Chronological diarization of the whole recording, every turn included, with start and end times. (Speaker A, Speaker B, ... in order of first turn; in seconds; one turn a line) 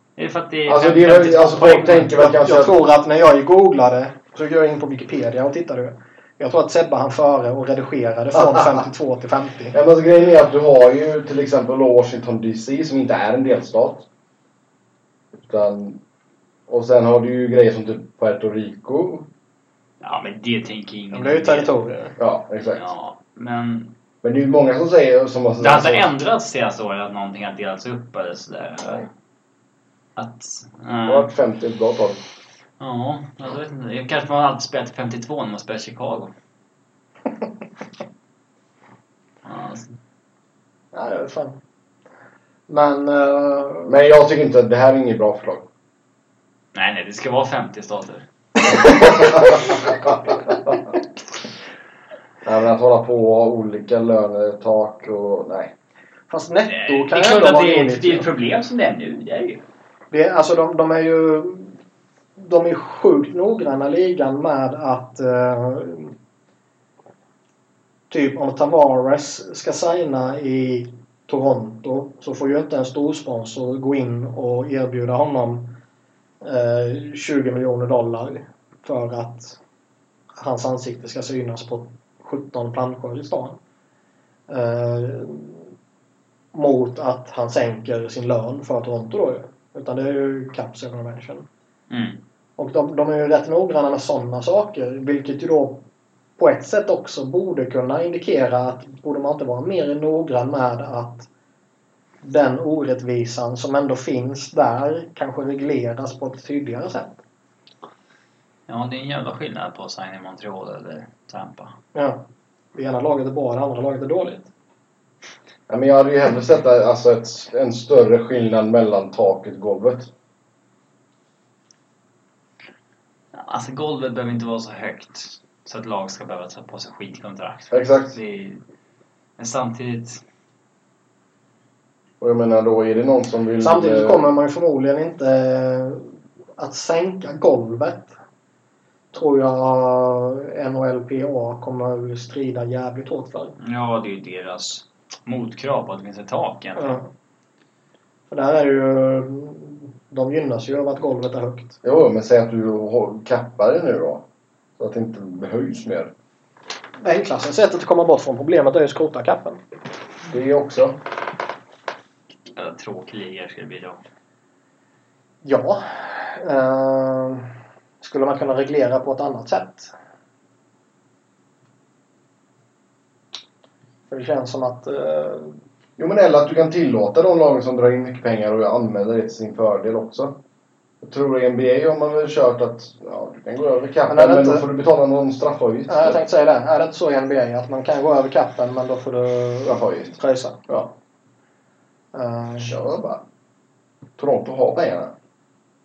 Speaker A: 0.2-2.2
Speaker B: 0.7-2.8
Speaker C: 2.2-9.8
Speaker B: 8.3-8.8
Speaker B: 9.7-14.1
Speaker B: 15.4-16.0
Speaker B: 16.7-19.3
Speaker A: 20.0-21.8
Speaker C: 21.1-22.2
Speaker B: 22.2-22.9
Speaker A: 22.6-23.9
Speaker B: 24.2-26.1
Speaker A: 25.6-29.1
Speaker A: 30.2-31.3
Speaker B: 31.1-32.2
Speaker A: 32.8-36.3
Speaker A: 39.4-40.0
Speaker C: 40.9-41.6
Speaker C: 42.7-44.0
Speaker B: 43.9-45.7
Speaker A: 46.7-48.3
Speaker B: 48.9-50.1
Speaker B: 52.4-55.7
Speaker C: 56.3-58.3
Speaker A: 56.7-59.6
Speaker C: 60.1-61.8
Speaker C: 62.4-66.2
Speaker C: 68.1-75.8
Speaker C: 76.4-79.6
Speaker C: 80.4-83.6
Speaker C: 84.5-85.7
Speaker C: 86.5-91.5
Speaker A: 91.9-92.2
Speaker C: 92.6-95.8
Speaker C: 96.4-101.3
Speaker C: 102.2-107.2
Speaker A: 108.7-111.8
Speaker C: 111.9-114.5
Speaker B: 115.7-120.1
Speaker A: 123.3-128.6
Speaker B: 127.7-128.2
Speaker A: 129.4-130.2
Speaker B: 132.2-134.3
Speaker C: 133.6-138.1
Speaker C: 139.1-143.6
Speaker A: 143.6-147.0
Speaker C: 146.8-147.1
Speaker C: 148.3-151.8
Speaker B: 151.8-154.3
Speaker B: 154.8-156.1
Speaker C: 157.0-159.6
Speaker B: 160.3-161.0
Speaker A: 162.5-164.0
Speaker C: 165.4-167.5
Speaker C: 168.0-169.9
Speaker C: 174.1-175.6
Speaker B: 176.0-180.4
Speaker B: 181.0-186.2
Speaker C: 184.1-184.7
Speaker C: 185.9-190.6
Speaker B: 189.6-190.2
Speaker B: 190.7-190.9
Speaker C: 192.1-192.7
Speaker B: 192.6-193.2
Speaker B: 194.2-195.1